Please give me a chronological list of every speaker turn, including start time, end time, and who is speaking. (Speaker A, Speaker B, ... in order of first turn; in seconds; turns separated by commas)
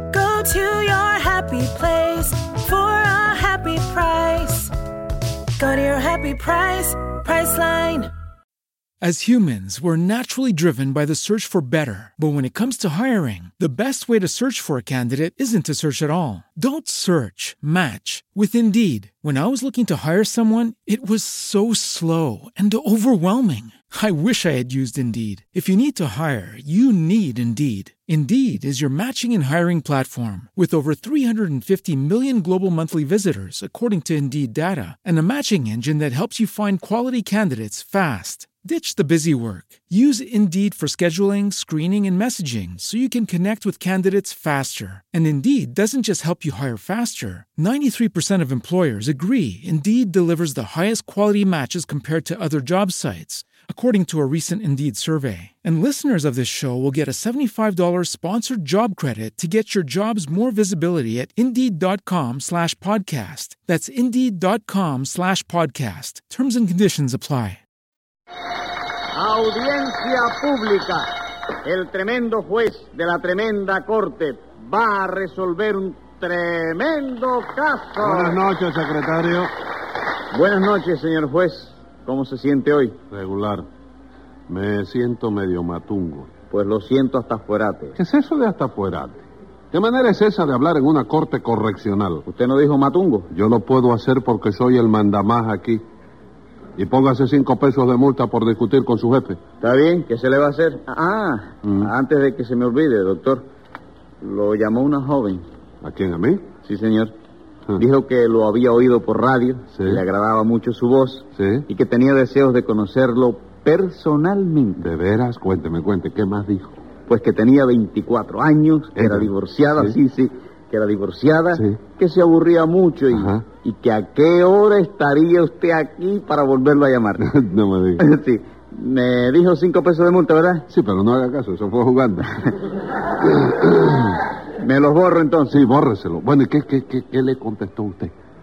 Speaker A: 0.1-4.7, Speaker A: 5.6-8.1, Speaker B: 9.0-67.6, Speaker C: 69.1-71.0, Speaker C: 71.6-78.4, Speaker D: 78.0-79.5, Speaker C: 80.3-83.0, Speaker D: 83.1-83.7, Speaker D: 84.5-86.3, Speaker C: 86.5-88.0, Speaker D: 88.0-92.2, Speaker C: 92.2-93.3, Speaker D: 93.3-95.8, Speaker D: 96.8-99.4, Speaker C: 99.6-103.5, Speaker C: 104.2-105.4, Speaker D: 105.8-106.4, Speaker C: 106.6-107.1, Speaker C: 107.8-114.9, Speaker D: 109.7-110.0, Speaker D: 111.3-111.7, Speaker D: 114.8-116.8, Speaker C: 117.1-127.3, Speaker D: 119.0-119.9, Speaker D: 123.1-123.4, Speaker D: 127.2-128.0, Speaker C: 128.0-130.7, Speaker D: 130.7-132.5, Speaker D: 133.4-134.1, Speaker C: 134.6-135.7, Speaker D: 135.5-138.1